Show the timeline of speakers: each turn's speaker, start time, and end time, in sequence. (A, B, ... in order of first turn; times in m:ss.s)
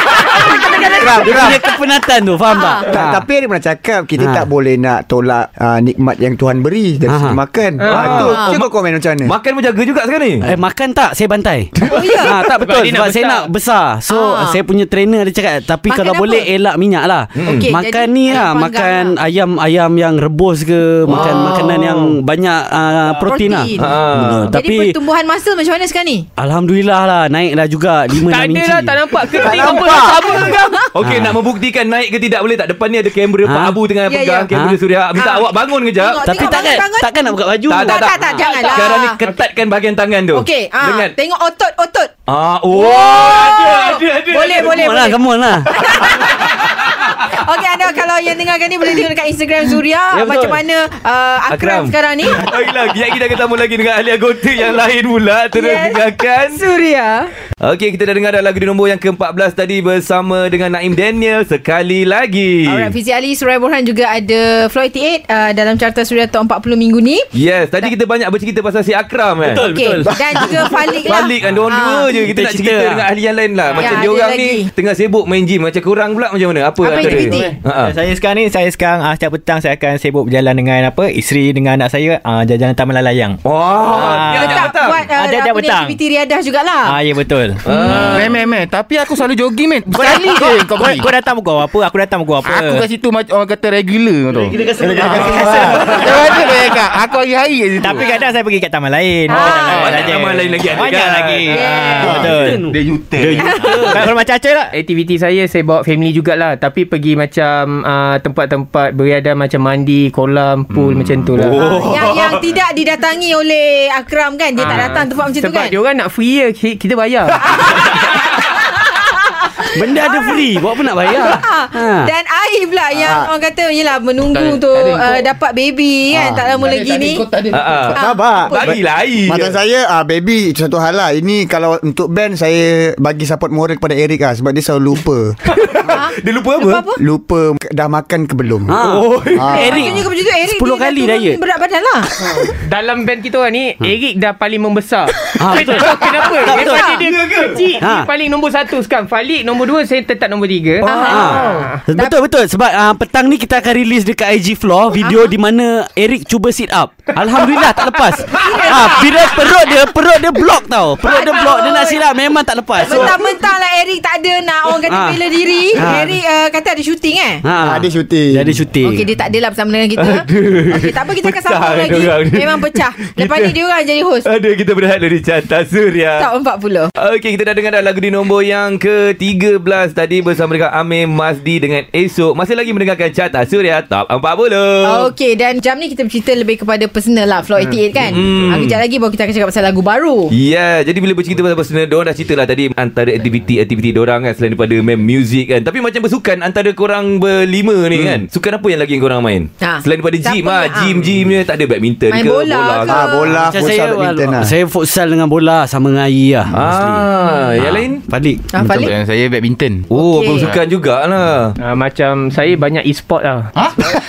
0:00.3-0:01.4 A
0:01.0-0:01.6 B
0:01.1-0:03.2 C
0:02.5-0:02.9 A
0:02.9-0:09.3 B
0:04.2-0:04.5 C
0:07.1-0:07.4 C
0:07.8-0:08.2 D
0:07.8-0:10.5 E
0:08.2-0:08.6 A
0:10.4-0:25.0 C
0:11.9-0:12.4 A
0:12.5-0:13.5 F
0:14.1-0:14.6 A
0:15.8-0:16.5 A
0:17.3-0:17.7 E
0:17.5-0:19.2 A
0:21.1-0:22.1 E
0:23.3-0:24.0 A
0:23.7-0:24.6 E
0:24.5-0:26.3 A
0:26.4-0:29.2 C
0:28.2-0:30.9 D
0:29.3-0:30.2 B
0:30.2-0:30.9 A
0:30.9-0:36.3 E
0:31.0-0:31.4 C
0:33.4-0:33.8 C
0:34.1-0:34.5 A
0:34.5-0:34.8 C
0:35.1-0:39.2 A
0:36.2-0:38.1 C
0:37.7-0:41.1 E
0:38.4-0:39.4 D
0:40.3-0:42.1 A
0:42.3-0:44.8 E
0:42.7-0:52.4 A
0:44.5-0:45.7 C
0:46.0-0:47.3 E
0:50.1-0:50.6 C
0:51.5-0:56.6 E
0:55.5-0:57.3 A
0:57.6-1:02.9 E
1:02.6-1:07.3 A
1:07.3-1:09.8 E
1:09.4-1:10.5 C
1:09.6-1:12.3 A
1:10.1-1:10.9 B
1:11.0-1:18.0 E
1:12.2-1:13.1 C
1:13.8-1:14.7 A
1:16.8-1:17.6 A
1:17.0-1:26.0 F
1:23.4-1:25.0 E
1:24.1-1:27.0 A
1:26.8-1:27.6 F
1:27.6-1:28.3 E
1:28.1-1:31.1 G
1:29.9-1:32.9 F
1:32.4-1:38.1 G
1:34.4-1:36.4 C
1:35.1-1:36.2 F
1:37.8-1:42.6 F
1:39.3-1:39.6 A
1:39.3-1:41.7 E
1:39.6-1:40.1 G
1:41.5-1:42.2 A
1:42.0-1:44.1 C
1:42.0-1:42.3 B
1:42.6-1:43.7 G
1:43.2-1:44.7 F
1:43.4-1:44.1 A
1:44.7-1:51.6 D
1:50.7-1:51.3 G
1:51.4-1:52.5 E
1:51.6-1:55.7 A
1:54.6-1:57.4 D
1:54.7-1:55.0 E
1:57.3-2:00.5 A
1:59.7-2:02.1 C
2:01.1-2:07.3 A
2:03.0-2:03.3 B
2:04.2-2:05.3 G
2:06.1-2:06.6 B
2:06.5-2:08.0 G
2:07.5-2:09.6 E
2:08.0-2:08.7 A
2:08.0-2:15.3 B
2:15.4-2:16.8 E
2:15.9-2:17.0 A
2:17.0-2:18.8 B
2:18.7-2:21.4 C
2:18.7-2:19.9 E
2:19.3-2:19.8 B
2:19.5-2:22.4 A
2:22.6-2:31.8 D
2:25.4-2:25.9 C
2:26.4-2:27.0 C
2:26.8-2:27.6 E
2:27.8-2:28.1 C
2:30.8-2:32.1 A
2:31.0-2:43.3 C
2:31.4-2:31.7 E
2:35.0-2:35.3 A
2:38.4-2:39.0 A
2:41.0-2:42.0 A
2:42.8-2:47.4 A
2:44.8-2:45.2 C
2:45.7-2:46.2 C
2:47.4-2:49.0 C
2:47.6-2:48.6 B
2:48.8-2:54.3 A
2:50.0-2:53.5 E
2:54.2-2:56.3 E
2:56.2-2:56.9 A
2:57.0-3:05.1 E
3:04.8-3:10.3 A
3:08.0-3:08.8 E
3:10.3-3:23.0 E
3:17.9-3:18.2 B
3:19.6-3:21.0 A
3:22.1-3:23.4 A
3:22.9-3:24.5 B
3:23.5-3:27.0 C
3:26.5-3:28.0 E
3:27.6-3:28.9 C
3:28.5-3:28.9 A
3:28.6-3:30.6 G
3:29.9-3:31.5 E
3:30.0-3:30.5 A
3:31.6-3:33.5 D
3:33.5-3:33.9 G